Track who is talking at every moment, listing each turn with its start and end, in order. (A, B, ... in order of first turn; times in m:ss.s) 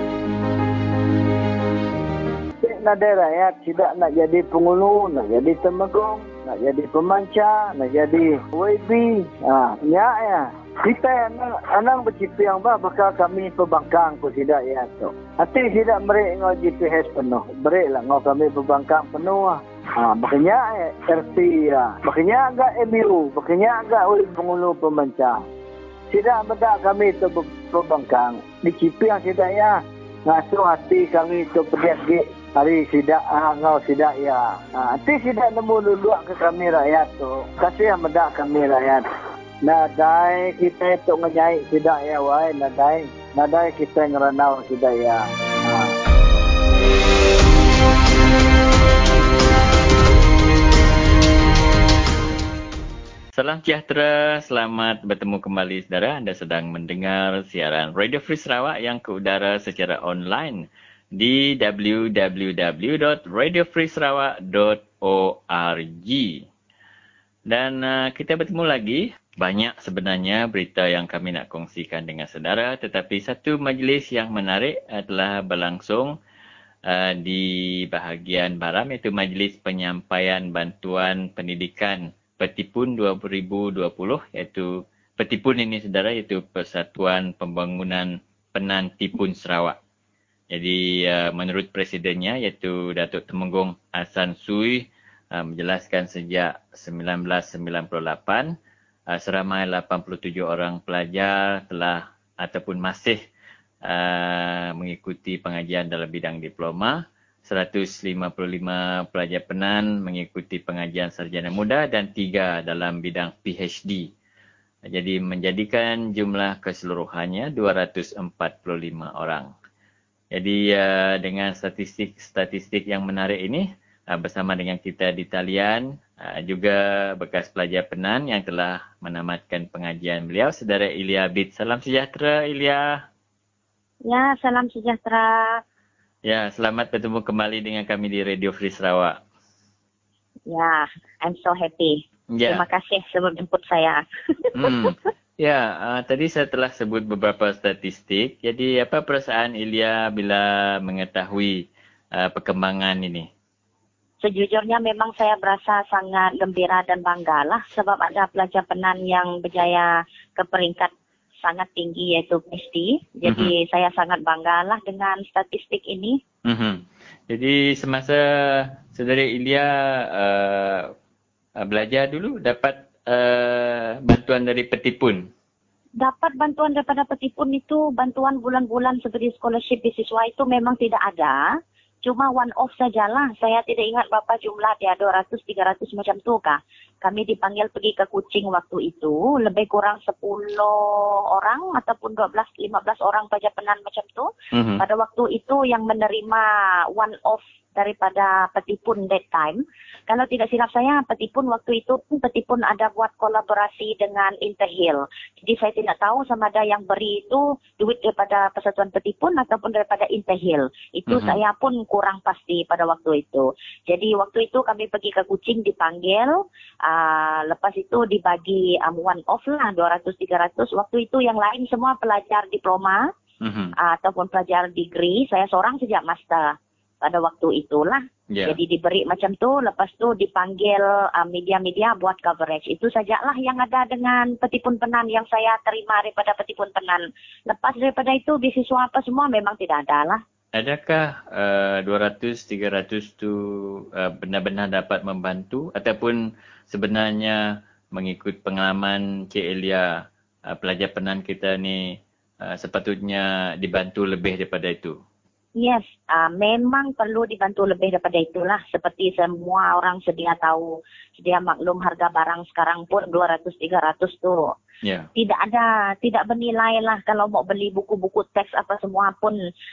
0:02.6-0:25.4 A
0:26.1-0:39.0 A
0:39.6-0:45.9 A
0:53.3-1:06.4 B
1:07.5-1:16.1 B
1:16.9-1:24.7 B
1:25.2-1:29.8 B
1:30.5-1:38.5 B
1:39.1-1:43.2 B
1:43.8-1:54.1 B
1:54.9-1:59.5 B
2:00.4-2:12.9 B
2:14.0-2:15.6 C
2:16.2-2:19.2 B
2:20.5-2:25.0 C
2:22.3-2:22.6 B
2:24.6-2:31.6 B
2:32.2-2:33.3 B
2:34.2-2:40.9 C
2:41.4-2:46.2 C
2:43.2-2:43.5 B
2:46.4-2:50.9 B
2:51.6-2:55.3 B
2:56.0-3:01.4 C
3:02.0-3:43.1 C
3:14.5-3:14.8 B
3:31.1-3:31.4 B
3:43.4-3:43.7 B
3:43.8-4:00.2 C
3:48.3-3:48.6 B
4:00.5-4:06.2 B
4:06.7-4:07.4 B
4:07.9-4:09.9 B
4:10.5-4:11.8 B
4:12.4-4:15.0 B
4:15.6-4:24.5 C
4:25.2-4:29.4 C